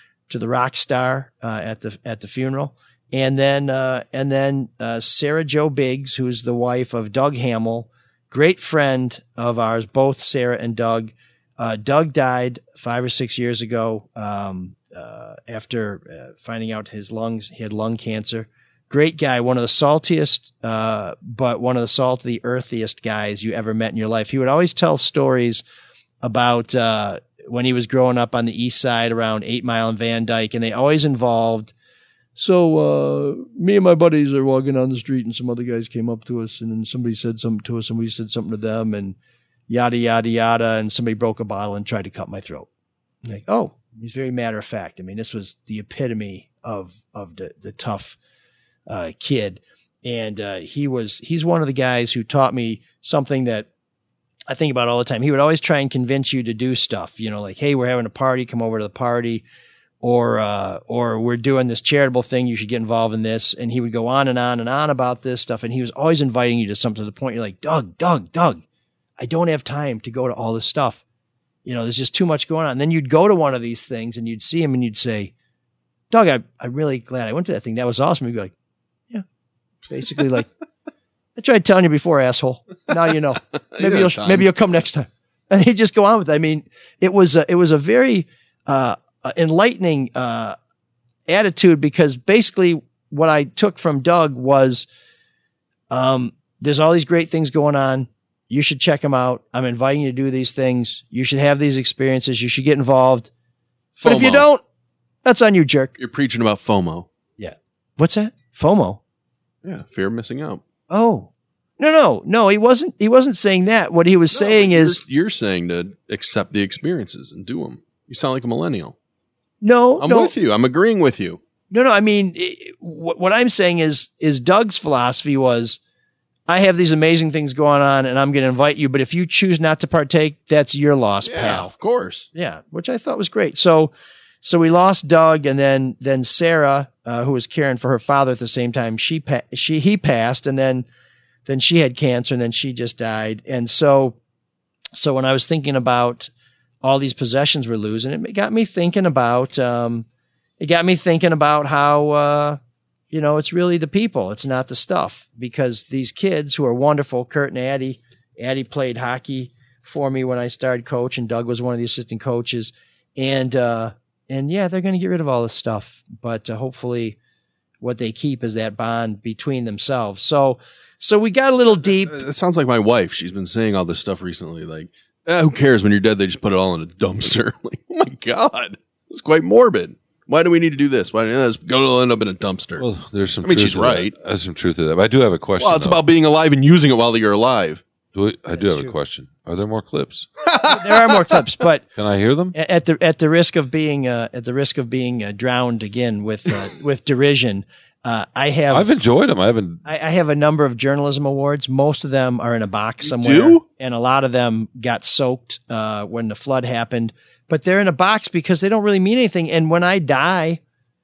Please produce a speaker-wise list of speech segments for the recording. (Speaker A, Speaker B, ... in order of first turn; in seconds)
Speaker A: 0.3-25.6, 26.2-31.7, 32.4-39.1, 39.7-42.7, 43.2-48.2, 48.9-53.7, 54.5-59.4, 60.0-68.6, 69.2-71.0, 71.6-75.3, 76.1-78.5, 79.9-80.5, 81.3-90.6, 91.3-94.9, 95.9-103.3, 104.0-104.6, 105.2-106.0, 107.4-109.0, 110.9-115.0, 119.6-120.3, 121.7-125.8, 126.5-131.7, 132.3-133.9, 134.4-140.8, 141.4-144.1, 144.9-146.3, 146.8-150.1, 150.6-152.6, 153.1-167.2, 167.8-172.2, 188.5-188.9, 190.7-191.8, 192.5-198.9, 199.8-210.6
Speaker B: 83.7-84.5, 104.0-104.5, 106.0-107.1, 109.6-110.6, 114.3-118.9, 120.0-121.4, 131.2-132.3, 172.0-182.8, 183.4-184.1, 185.6-187.8, 190.5-191.4, 203.0-203.6
Speaker C: 182.8-186.0, 188.1-190.3, 191.9-192.5, 198.7-199.8